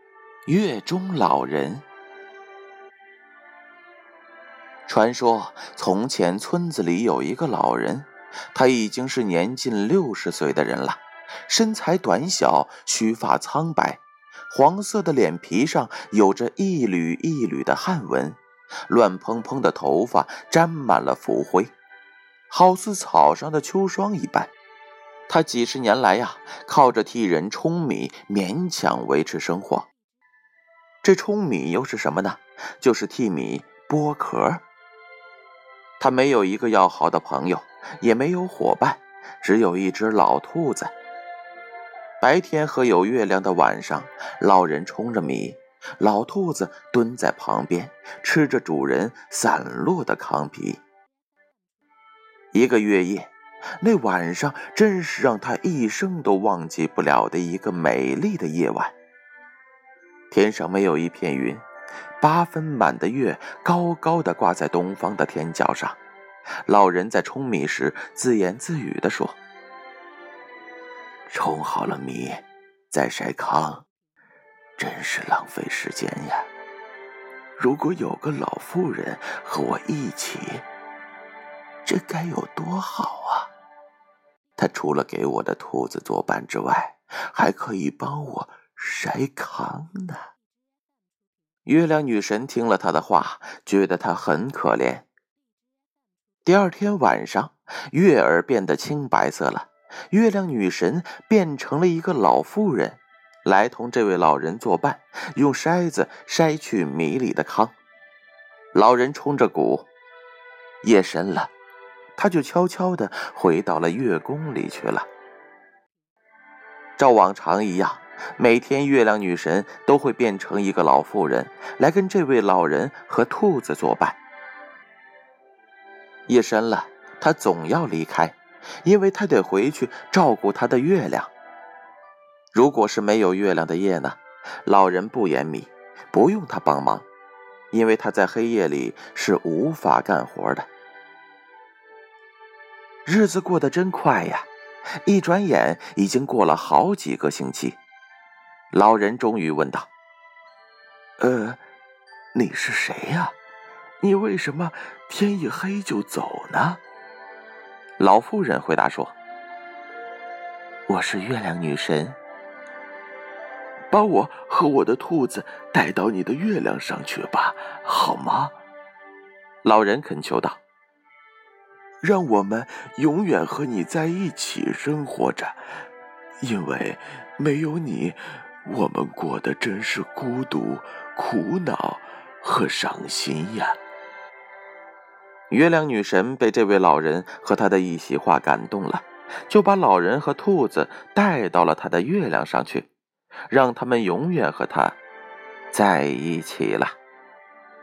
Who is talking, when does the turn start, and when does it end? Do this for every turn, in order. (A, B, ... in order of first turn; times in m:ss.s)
0:00.5-0:01.8 A
0:04.9-0:21.7 A
0:22.5-0:24.5 A
0:25.3-0:29.9 A
0:31.0-0:34.6 A
0:36.0-0:40.9 A
0:42.2-0:50.8 A
0:52.5-0:58.9 A
1:00.3-1:01.6 A
1:02.2-1:06.0 A
1:06.6-1:09.4 A
1:11.3-1:13.8 A
1:14.8-1:16.5 A
1:17.6-1:20.6 A
1:21.8-1:23.5 A
1:24.6-1:30.3 A
1:31.6-1:35.0 A
1:36.4-1:47.7 A
1:48.7-1:49.9 A
1:50.8-1:51.5 A
1:52.2-1:55.1 A
1:57.0-2:04.2 A
2:06.3-2:11.3 A
2:12.5-2:17.0 A
2:17.7-2:20.7 A
2:23.0-2:24.5 A
2:25.0-2:27.8 A
2:28.7-2:29.9 A
2:31.2-2:31.6 A
2:32.3-2:33.3 A
2:34.0-2:36.8 A
2:38.0-2:39.1 A
2:40.9-2:42.2 A
2:43.9-2:48.5 A
2:49.6-2:50.6 A
2:52.0-2:55.6 A
2:56.4-3:03.8 A
3:05.5-3:12.9 A
3:13.5-3:15.0 A
3:15.7-3:16.9 A